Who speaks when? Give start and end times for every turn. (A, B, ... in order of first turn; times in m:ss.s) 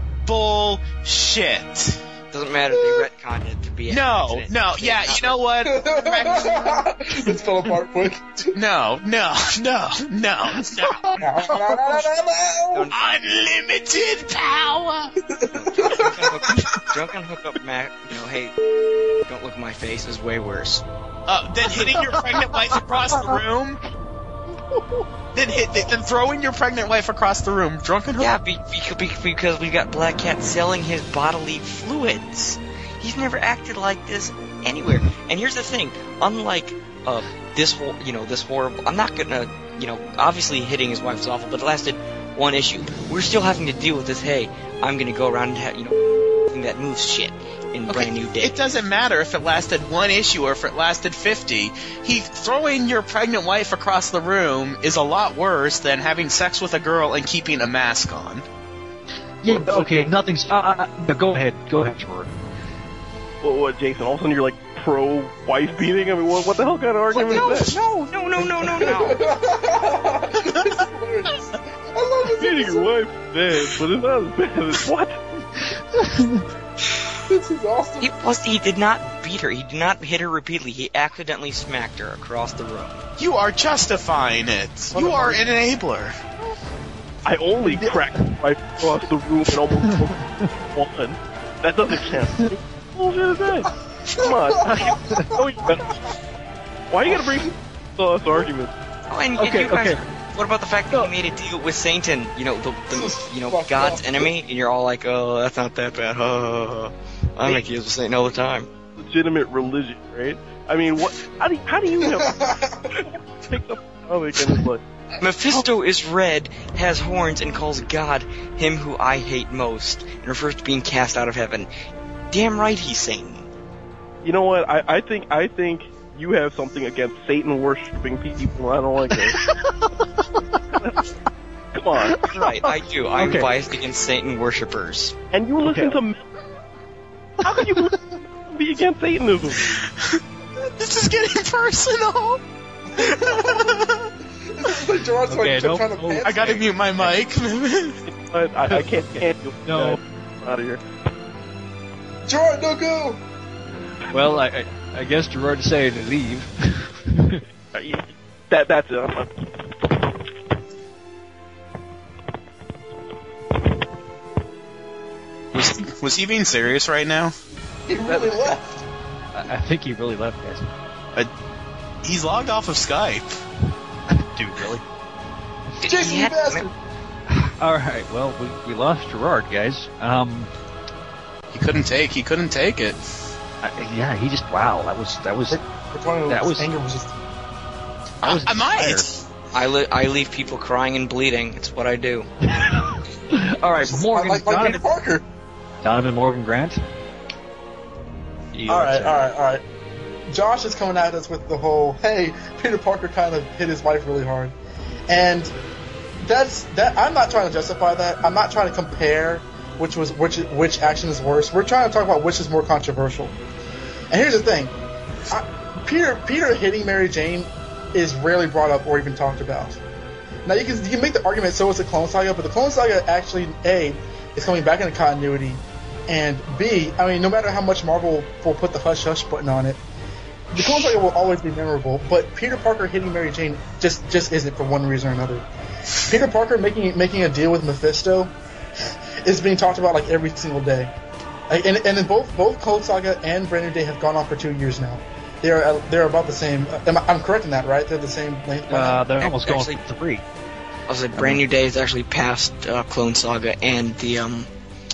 0:00.2-0:02.0 A
0:02.3-0:05.4 B
0:03.9-0:06.7 A
0:05.7-0:08.5 C
0:08.5-0:11.9 A
0:11.2-0:12.9 C
0:12.9-0:15.2 A
0:15.3-0:16.5 C
0:15.5-0:18.6 B
0:19.3-0:20.8 B
0:21.3-0:23.8 A
0:25.3-0:28.3 A
0:28.2-0:48.6 B
0:47.9-0:58.4 A
0:59.4-1:02.3 D
0:59.6-0:59.9 E
1:03.4-1:07.8 E
1:07.1-1:07.7 C
1:07.3-1:09.2 B
1:08.4-1:12.9 C
1:12.4-1:15.2 E
1:15.9-1:16.4 D
1:17.3-1:18.1 C
1:18.0-1:23.0 B
1:23.2-1:26.2 A
1:27.2-1:36.0 E
1:29.9-1:30.5 D
1:34.7-1:35.3 D
1:34.9-1:35.4 C
1:36.9-1:38.7 E
1:39.1-1:48.7 B
1:39.4-1:40.0 D
1:42.9-1:44.3 C
1:49.0-1:54.8 E
1:52.1-1:53.0 C
1:55.2-2:01.7 B
2:02.3-2:03.5 B
2:04.2-2:09.5 E
2:09.3-2:10.4 D
2:10.8-2:11.0 E
2:11.7-2:12.3 E
2:12.1-2:13.5 D
2:12.3-2:15.2 B
2:15.3-2:16.3 E
2:15.6-2:16.0 D
2:17.4-2:19.7 E
2:17.5-2:17.9 D
2:19.7-2:22.4 A
2:23.0-2:24.1 A
2:23.0-2:23.8 C
2:24.4-2:26.7 C
2:25.3-2:27.1 D
2:26.2-2:28.0 A
2:28.1-2:30.8 E
2:28.7-2:30.0 D
2:32.3-2:33.2 C
2:34.1-2:37.4 D
2:37.7-2:39.5 E
2:45.5-2:47.3 A
2:47.9-2:48.8 C
2:48.1-2:48.5 D
2:49.3-2:50.7 D
2:52.0-2:53.4 A
2:54.1-2:54.8 D
2:55.8-2:56.7 B
2:55.8-2:56.7 C
2:57.3-3:00.5 D
3:01.5-3:03.0 A
3:03.6-3:05.6 D
3:05.5-3:07.2 C
3:06.3-3:06.7 D
3:08.2-3:09.1 D
3:08.2-3:09.2 A
3:09.5-3:12.3 B
3:12.5-3:14.8 D
3:13.8-3:15.2 C
3:15.8-3:16.8 D
3:18.5-3:19.2 D
3:18.7-3:19.6 C
3:20.3-3:24.6 C
3:25.1-3:25.5 C
3:26.2-3:33.4 C
3:34.1-3:34.7 C
3:35.3-3:39.8 C
3:40.4-3:49.8 C
3:50.5-3:55.4 C
3:56.0-3:58.3 C
3:59.2-4:00.9 C
4:01.5-4:09.0 C
4:08.7-4:10.2 D
4:09.2-4:09.8 B
4:10.9-4:14.5 B
4:11.2-4:11.4 D